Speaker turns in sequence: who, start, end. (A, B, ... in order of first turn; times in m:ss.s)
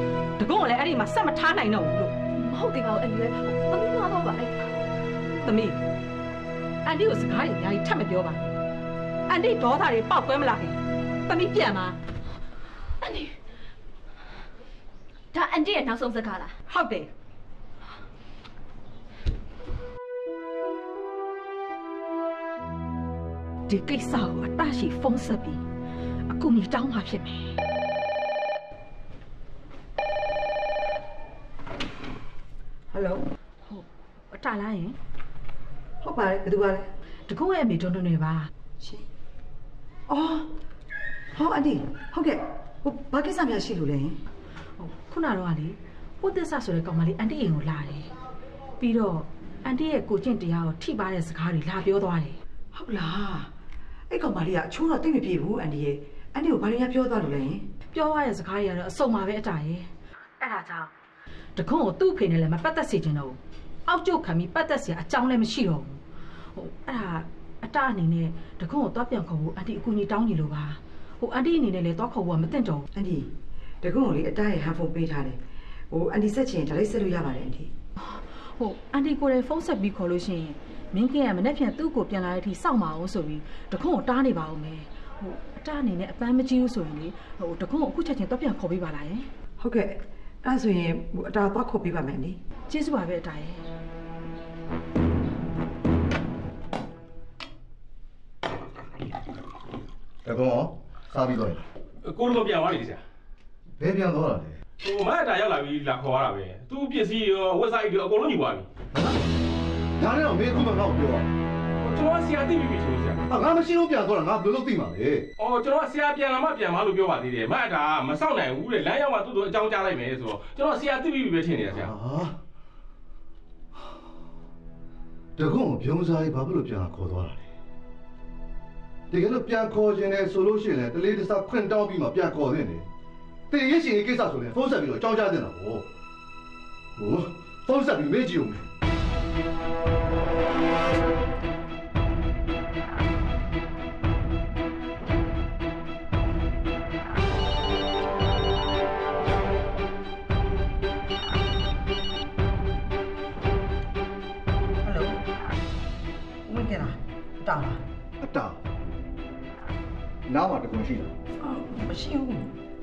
0:00.4-0:02.1 A
0:02.3-0:04.7 B
0:05.4-0:05.8 A
0:06.8-0:08.4 A
0:09.3-0:12.0 A
0:13.0-0:13.3 B
0:15.3-0:16.6 B
0:16.7-0:17.1 A
0:23.7-0:25.6 A
0:26.3-0:27.6 A
0:32.9-0:33.2 C
0:33.7-0:34.9 A
0:36.0-0:36.9 C
0:37.3-0:38.5 A
0:38.8-0:39.0 C
0:40.1-0:40.5 C
0:41.3-0:44.2 C
0:44.8-0:48.1 A
0:48.8-0:52.4 A
0:52.7-0:53.5 C
0:54.1-0:57.7 C
0:57.9-0:59.9 A
1:00.4-1:00.9 A
1:01.6-1:06.0 A
1:06.6-1:12.8 A
1:12.9-1:15.4 C
1:15.9-1:17.7 C
1:18.0-1:29.3 A
1:29.6-1:32.4 C
1:32.7-1:33.6 A
1:40.2-1:41.6 D
1:42.0-1:43.0 E
1:43.8-1:44.6 D
1:44.8-1:48.7 E
1:50.0-1:51.3 D
1:51.8-1:53.2 E
1:53.3-1:55.2 D
1:55.4-2:01.9 E
2:01.7-2:02.3 D
2:05.4-2:07.4 D
2:09.1-2:12.9 D
2:13.5-2:15.9 D
2:17.0-2:18.7 D
2:34.8-2:35.2 C
2:36.4-2:37.8 C
2:38.2-2:38.6 D
2:40.3-2:41.1 D
2:41.4-2:42.5 C